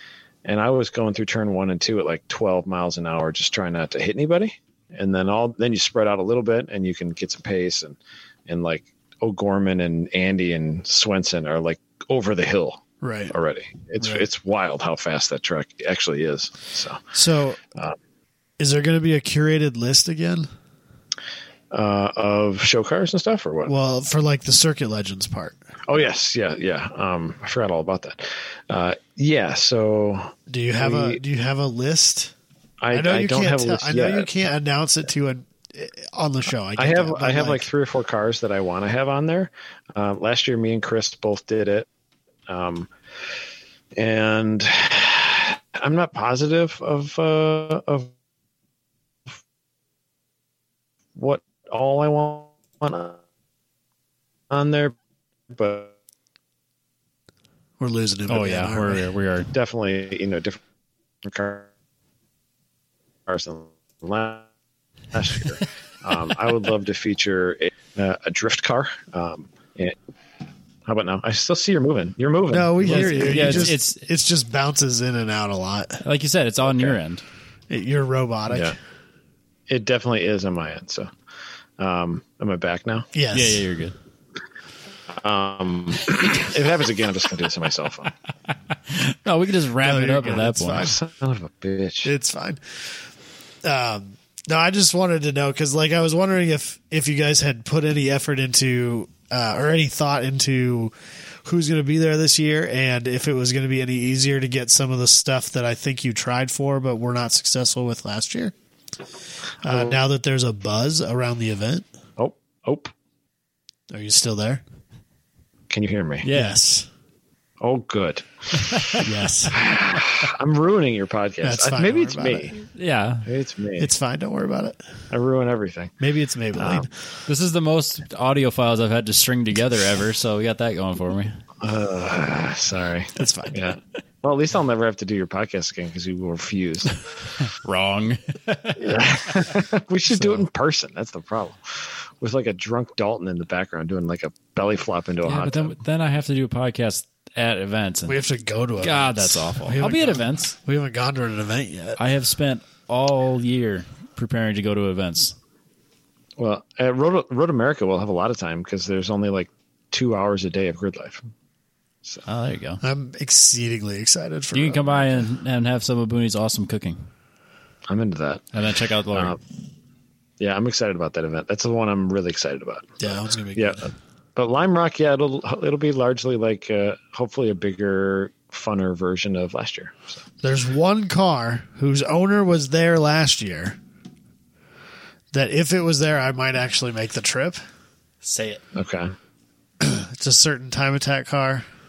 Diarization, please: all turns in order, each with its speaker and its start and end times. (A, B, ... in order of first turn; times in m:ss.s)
0:00.4-0:17.1 A
0:13.0-0:13.3 B
0:14.0-0:14.3 B
0:17.1-0:17.6 B
0:18.6-0:20.5 B
0:21.7-0:23.7 A
0:23.7-0:25.6 B
0:25.9-0:31.2 A
0:30.5-0:32.3 B
0:32.8-0:34.3 A
0:32.9-0:37.7 B
0:36.8-0:41.9 A
0:42.5-0:42.9 A
0:44.0-0:48.1 A
0:51.2-0:53.2 A
0:54.5-0:55.0 A
0:55.5-0:55.9 A
0:57.8-0:59.1 B
0:58.3-0:59.5 C
0:59.5-1:00.6 A
1:01.2-1:01.7 A
1:03.3-1:04.5 A
1:05.1-1:10.0 A
1:10.8-1:13.7 A
1:12.5-1:16.0 B
1:12.8-1:14.0 C
1:16.0-1:17.2 C
1:16.6-1:17.0 A
1:17.7-1:18.8 B
1:18.5-1:18.8 A
1:19.7-1:21.1 A
1:21.8-1:23.1 A
1:23.1-1:23.6 B
1:23.3-1:24.0 C
1:25.1-1:28.1 A
1:28.9-1:31.0 C
1:29.8-1:31.0 B
1:30.8-1:32.1 A
1:32.0-1:33.1 B
1:33.6-1:48.5 B
1:49.6-1:51.9 B
1:49.6-1:50.0 A
1:52.2-1:52.9 A
1:53.9-1:54.6 B
1:55.7-1:56.3 A
1:56.2-1:56.6 C
1:56.3-1:56.9 B
1:57.6-2:02.7 A
1:58.8-1:59.1 C
1:59.0-1:59.6 B
2:01.4-2:02.5 B
2:02.7-2:03.3 C
2:03.2-2:03.9 A
2:03.8-2:04.8 B
2:05.1-2:06.0 A
2:06.0-2:06.9 B
2:06.5-2:06.9 A
2:07.3-2:11.4 C
2:11.6-2:17.0 A
2:13.2-2:13.6 B
2:17.5-2:19.5 C
2:18.8-2:25.8 A
2:25.2-2:28.2 C
2:28.1-2:32.0 B
2:28.8-2:30.5 C
2:32.0-2:35.4 C
2:36.4-2:41.3 A
2:42.2-2:42.8 C
2:42.8-2:45.3 B
2:44.5-2:47.1 C
2:47.9-2:48.5 A
2:48.5-2:49.4 C
2:49.1-2:49.4 A
2:50.4-3:00.2 A
2:53.0-2:53.9 B
3:00.4-3:03.8 B
3:05.3-3:07.6 B
3:08.2-3:08.6 C
3:08.8-3:09.1 A
3:09.8-3:11.6 B